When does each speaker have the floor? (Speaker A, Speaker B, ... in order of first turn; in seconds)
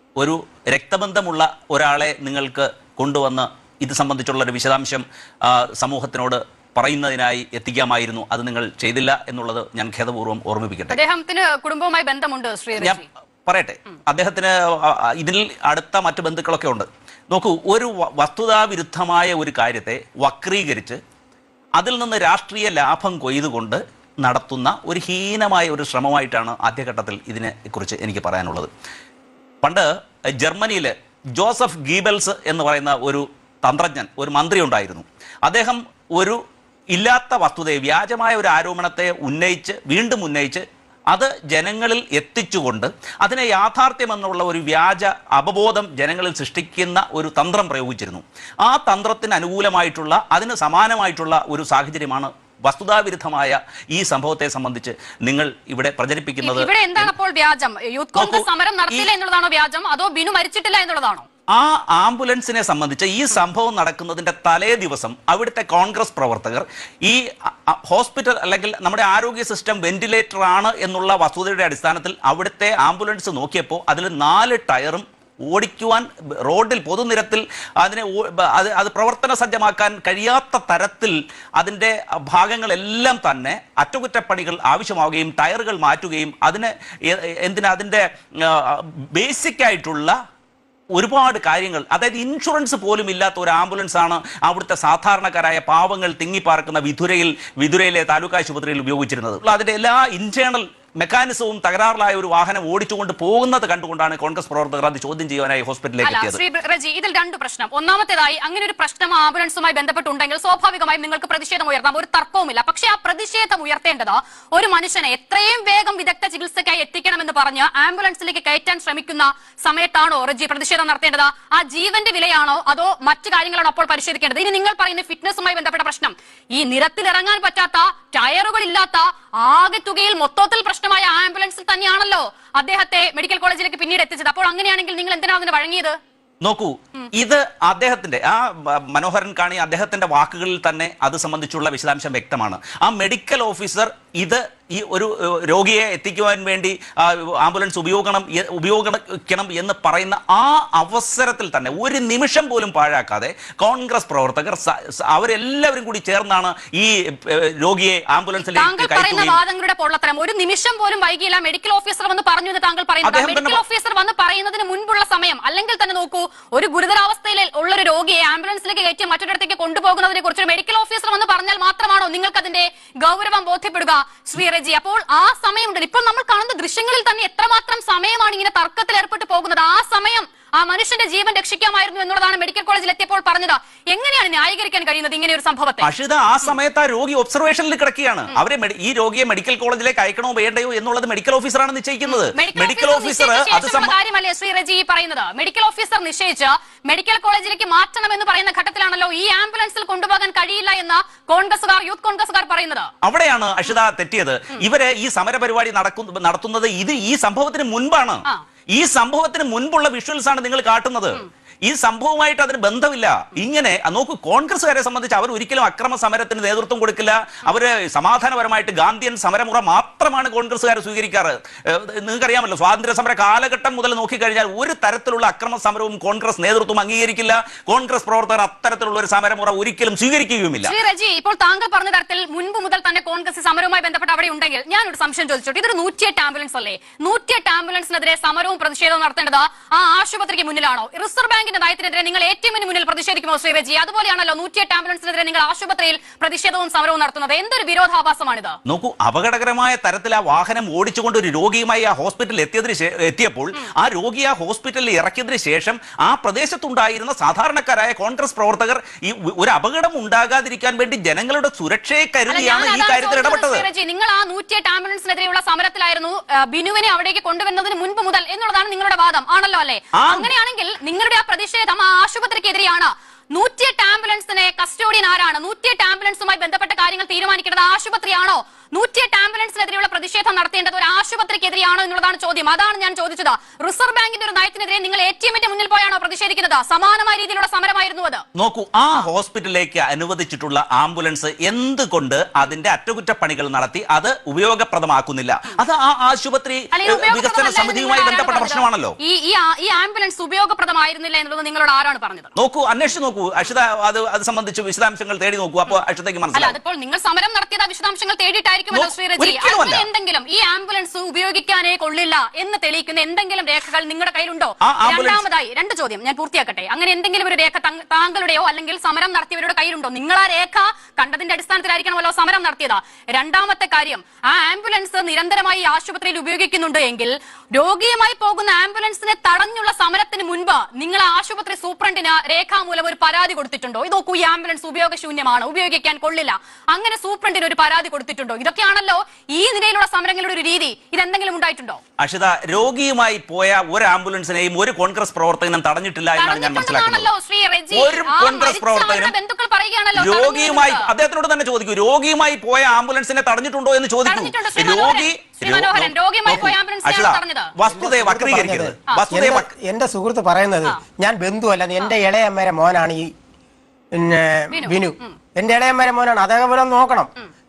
Speaker A: 0.2-11.0, 12.8-21.0, 21.8-28.7, 29.6-36.4, 36.9-57.1, 58.2-59.1, 61.5-90.1, 91.0-106.4, 136.4-159.4, 163.0-163.6, 185.8-193.9, 203.0-230.7, 248.7-263.7, 270.0-270.3, 288.4-299.0, 302.4-306.6, 308.7-309.9, 314.6-315.2, 342.0-347.1, 347.7-349.1, 349.9-359.5
Speaker B: 10.9-13.1, 56.4-61.3, 106.0-136.0, 158.4-185.9, 192.1-202.9, 230.6-248.6, 262.3-288.2, 296.8-302.3, 306.3-341.8, 346.2-350.9, 354.1-357.5, 364.5-365.2
Speaker C: 357.7-363.1, 364.0-367.1